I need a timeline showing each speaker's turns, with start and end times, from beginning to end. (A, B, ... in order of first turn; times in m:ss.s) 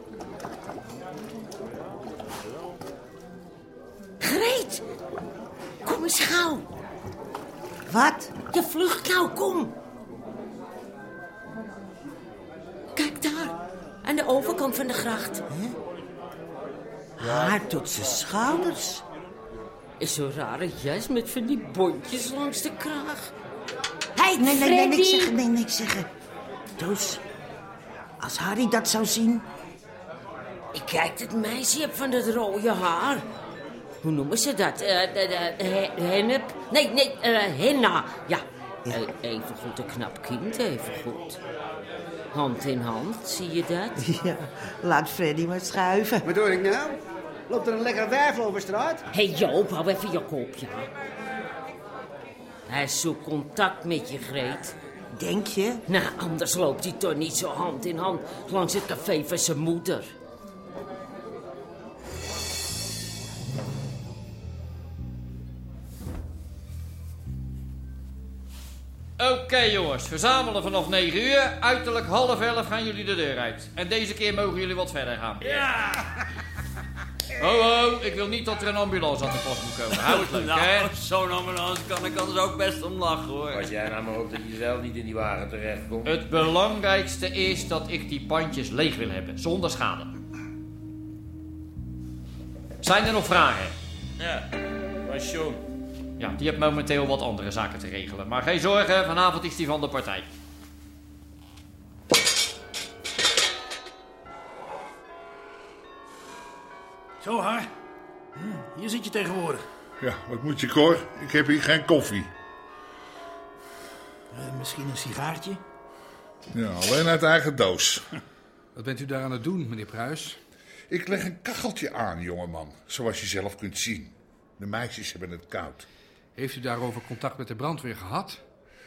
0:04.2-0:04.8 A
0:05.8-0:06.7 A
0:07.9-0:08.4 B
0:08.5-0:09.8 A
0:13.0-0:13.5 B
0:14.0-0:15.4 A
0:17.2-0:19.0 B
0:20.0-0:23.3 A
0:24.2-0:26.1 B
0:24.4-0:25.4 A
0:26.8-0:27.2 B
0:28.2-0:29.5 B
0:30.7-0:33.3 A
0:34.0-0:41.4 A
0:42.3-0:44.0 A
0:44.0-0:46.3 B
0:46.3-0:47.0 C
0:47.5-0:49.0 C
0:49.1-0:50.9 A
0:52.7-0:54.8 A
0:55.1-0:55.8 B
0:55.9-1:00.1 A
1:09.2-1:15.6 D
1:15.4-1:16.0 E
1:17.4-1:21.0 D
1:19.9-1:26.1 E
1:26.0-1:30.1 D
1:32.8-1:33.8 D
1:35.1-1:35.6 E
1:36.2-1:40.3 D
1:47.2-1:47.7 F
1:48.4-1:49.6 F
1:50.0-1:52.3 G
1:54.3-1:55.6 F
1:56.5-1:58.0 G
1:58.8-2:00.4 H
2:00.9-2:05.9 G
2:06.4-2:08.4 H